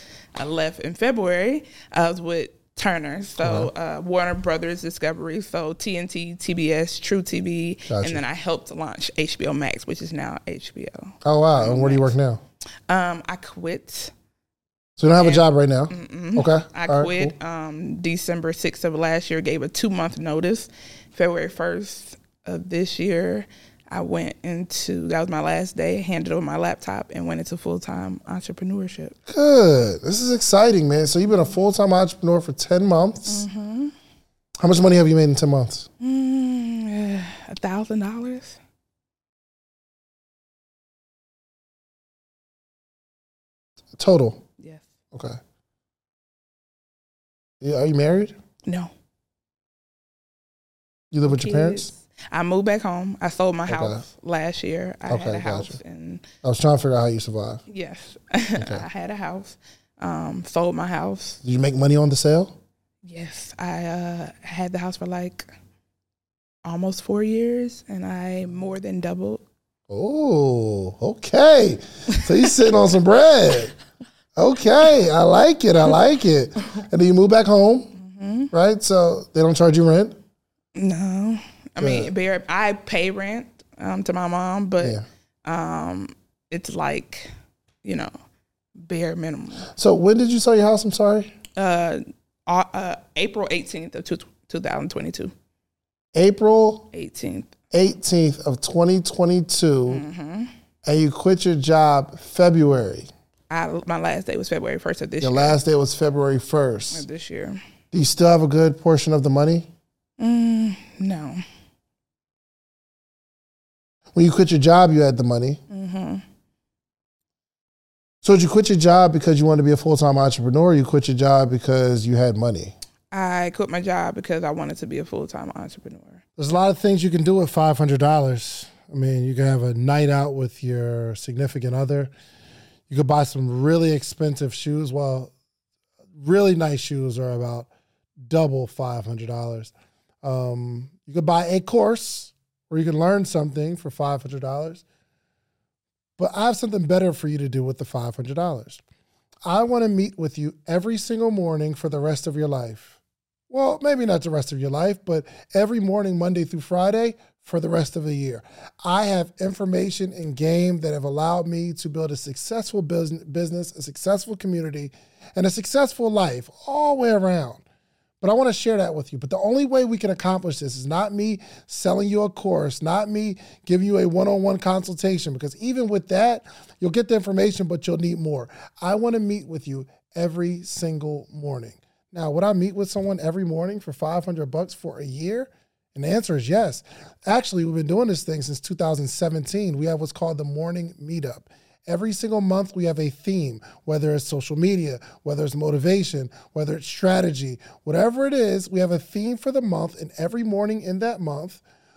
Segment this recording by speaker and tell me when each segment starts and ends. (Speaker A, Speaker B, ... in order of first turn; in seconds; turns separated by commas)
Speaker A: 0.3-12.1, Speaker B: 3.4-3.7, Speaker B: 7.9-8.2, Speaker B: 11.2-12.4, Speaker A: 12.9-14.1, Speaker B: 15.0-17.3, Speaker A: 15.2-29.1, Speaker B: 29.3-33.4, Speaker A: 33.3-33.9, Speaker B: 34.6-35.9, Speaker A: 36.0-38.6, Speaker B: 44.0-44.4, Speaker A: 44.6-44.9, Speaker B: 45.1-45.4, Speaker B: 47.6-48.3, Speaker A: 48.6-48.9, Speaker B: 51.1-51.9, Speaker A: 51.2-56.2, Speaker B: 53.7-54.0, Speaker B: 55.1-55.8, Speaker B: 56.4-57.6, Speaker A: 57.7-61.4, Speaker B: 61.4-62.5, Speaker A: 63.0-65.5, Speaker A: 66.6-69.4, Speaker B: 69.9-73.7, Speaker A: 72.3-72.6, Speaker B: 74.3-77.9, Speaker A: 78.0-78.5, Speaker B: 78.5-80.2, Speaker A: 80.7-87.3, Speaker B: 81.8-82.1, Speaker A: 87.8-88.1, Speaker A: 88.8-89.7, Speaker B: 89.8-91.3, Speaker A: 91.6-95.3, Speaker B: 96.1-96.8, Speaker A: 96.9-97.5, Speaker B: 97.7-100.0, Speaker A: 99.9-100.5, Speaker B: 100.8-103.1, Speaker A: 103.5-105.6, Speaker B: 105.2-107.0, Speaker A: 106.9-107.6, Speaker B: 107.9-109.7, Speaker A: 110.2-111.4, Speaker B: 114.1-115.6, Speaker A: 115.7-116.2, Speaker B: 118.2-122.7, Speaker A: 123.1-126.2, Speaker B: 126.4-132.1, Speaker B: 132.9-135.3, Speaker B: 136.2-137.7, Speaker B: 138.2-139.7, Speaker B: 140.2-144.8, Speaker B: 146.2-148.8, Speaker B: 149.4-153.0, Speaker B: 153.5-167.6, Speaker B: 168.2-201.6